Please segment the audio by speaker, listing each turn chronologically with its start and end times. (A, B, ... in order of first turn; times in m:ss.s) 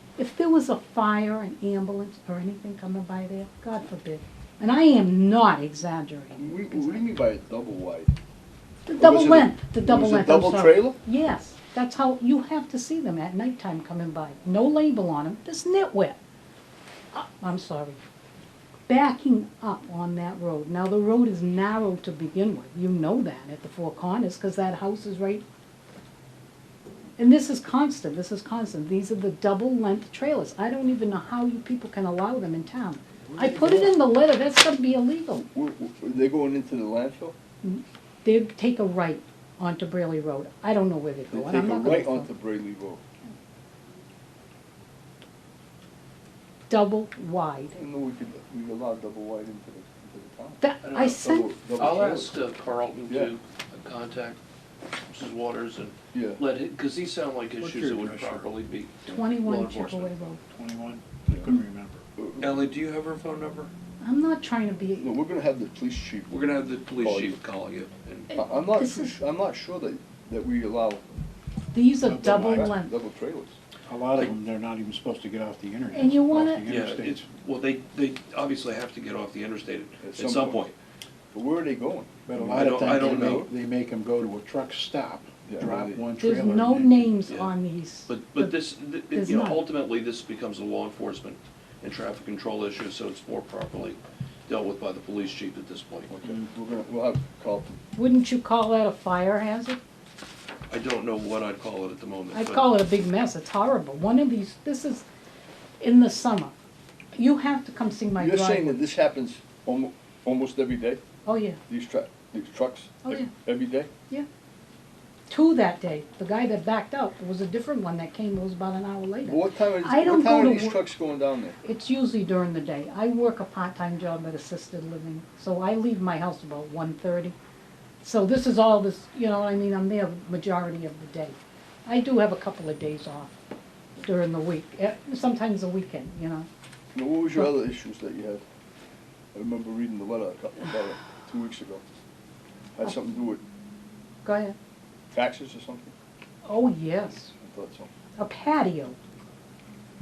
0:00.2-0:07.0 A
0:06.4-0:08.1 B
0:08.9-0:16.2 A
0:09.0-0:11.0 B
0:17.1-0:18.0 A
0:18.9-0:25.4 A
0:27.2-0:35.5 A
0:33.3-0:33.9 B
0:35.5-0:37.3 B
0:37.6-0:42.3 A
0:41.3-0:43.0 B
0:46.7-0:47.7 A
0:47.7-0:52.4 B
0:50.6-0:51.5 A
0:50.8-0:51.2 C
0:51.8-0:54.4 C
0:53.1-0:53.3 B
0:55.1-1:00.1 C
0:56.1-0:56.4 B
0:57.6-0:58.4 D
0:59.0-1:00.4 A
1:00.5-1:02.0 D
1:02.2-1:02.6 B
1:02.4-1:03.7 C
1:04.0-1:05.1 A
1:05.0-1:07.4 B
1:06.3-1:08.3 C
1:08.3-1:09.1 A
1:08.3-1:11.0 B
1:11.7-1:12.9 A
1:12.0-1:12.7 D
1:12.3-1:13.6 B
1:13.9-1:17.2 D
1:15.9-1:16.6 A
1:16.6-1:20.7 C
1:20.0-1:20.7 B
1:21.3-1:23.5 B
1:22.2-1:27.2 D
1:22.5-1:23.5 C
1:25.4-1:26.0 B
1:26.2-1:28.5 A
1:28.1-1:36.1 C
1:29.1-1:29.6 A
1:36.1-1:37.8 B
1:38.0-1:39.8 A
1:40.7-1:42.7 C
1:42.3-1:45.0 A
1:45.8-1:46.5 A
1:47.1-1:48.8 A
1:48.2-1:51.0 B
1:51.2-1:51.6 A
1:51.7-1:53.9 B
1:53.0-1:53.3 A
1:55.3-2:00.8 A
1:59.2-2:01.6 B
2:01.6-2:07.3 A
2:08.0-2:13.3 A
2:14.0-2:16.5 A
2:16.9-2:18.4 B
2:19.3-2:21.8 B
2:22.8-2:23.4 B
2:24.2-2:24.6 A
2:25.1-2:25.9 B
2:26.4-2:27.3 A
2:27.4-2:27.9 B
2:28.2-2:29.0 A